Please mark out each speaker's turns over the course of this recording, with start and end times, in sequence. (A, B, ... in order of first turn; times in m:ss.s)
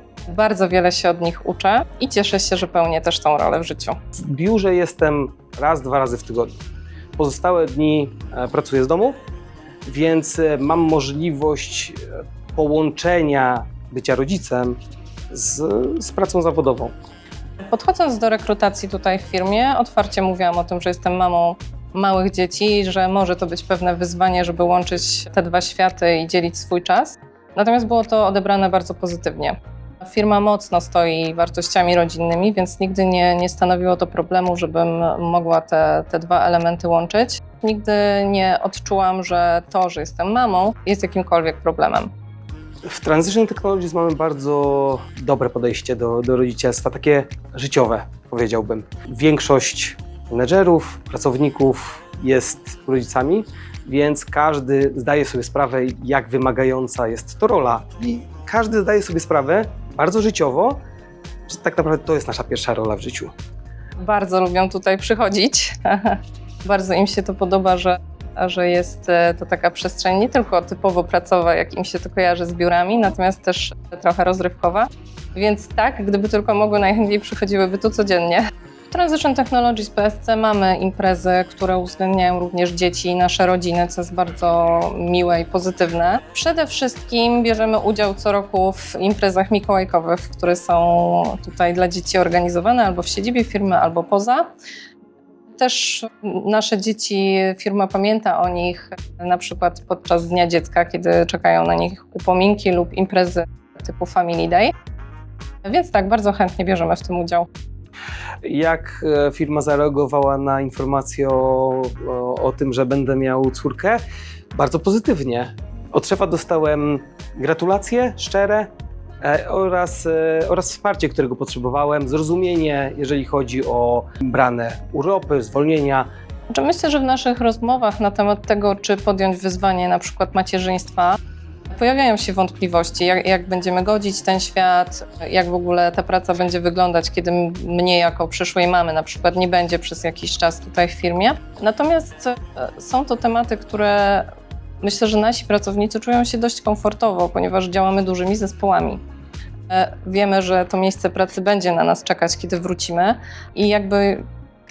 0:00.3-0:04.0 A
0:04.1-0:06.6 B
0:07.2-0:09.2 B
0:09.8-0:14.8 B
0:15.3-0:16.9 B
0:17.6-0:42.1 A
0:42.8-1:00.8 B
1:01.5-1:03.3 B
1:04.0-1:34.5 A
1:35.6-1:44.7 A
1:45.6-1:47.5 A
1:48.4-1:54.0 B
1:54.5-2:06.1 B
2:06.5-2:11.2 A
2:11.7-2:29.0 A
2:29.7-2:34.3 A